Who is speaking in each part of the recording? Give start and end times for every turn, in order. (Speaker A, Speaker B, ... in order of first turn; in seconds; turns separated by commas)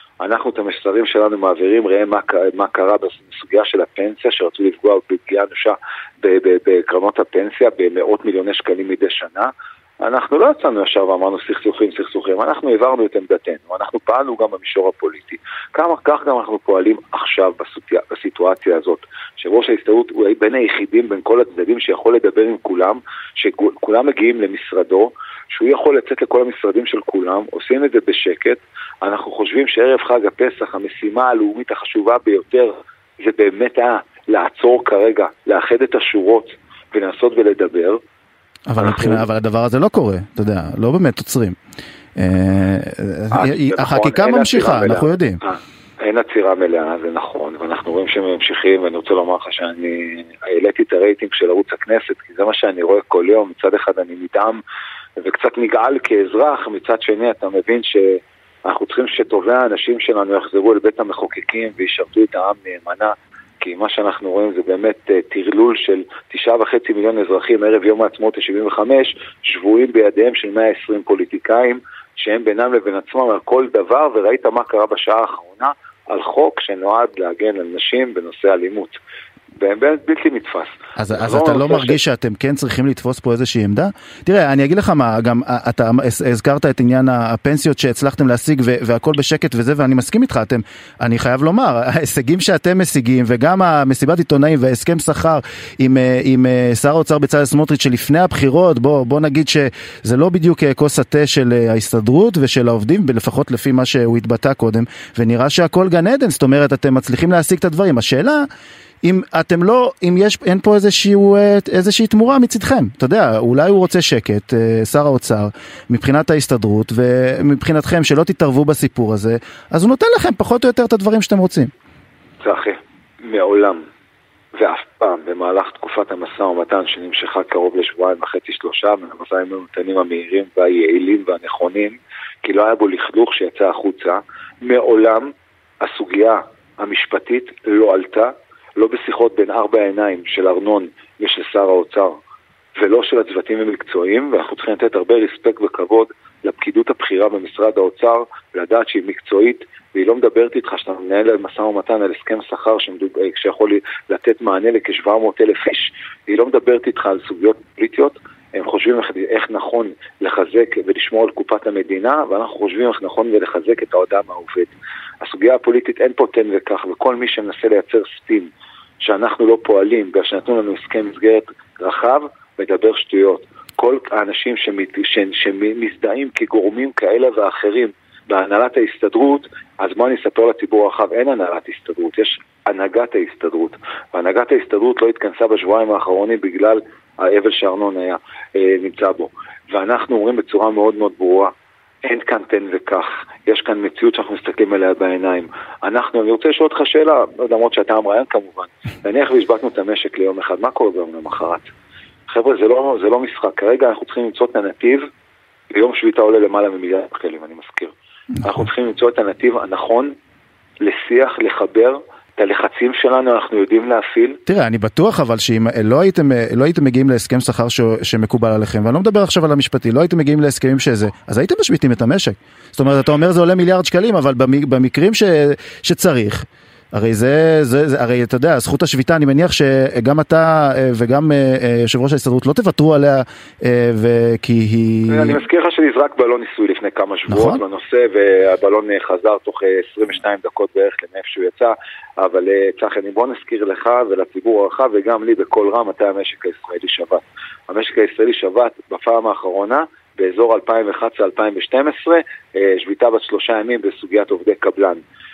Speaker A: 0.2-38.0, Speaker B: 38.7-41.6, Speaker A: 38.8-39.2, Speaker B: 42.2-45.4, Speaker A: 43.3-54.6, Speaker A: 55.2-79.0, Speaker A: 79.6-82.0, Speaker B: 81.0-108.5, Speaker B: 109.0-121.7, Speaker A: 122.4-123.8, Speaker A: 124.5-142.2, Speaker A: 142.8-191.5, Speaker A: 192.0-201.7, Speaker A: 202.3-205.1, Speaker A: 205.7-210.1, Speaker A: 210.8-214.4, Speaker B: 214.5-235.4, Speaker A: 235.1-255.0, Speaker B: 237.3-237.6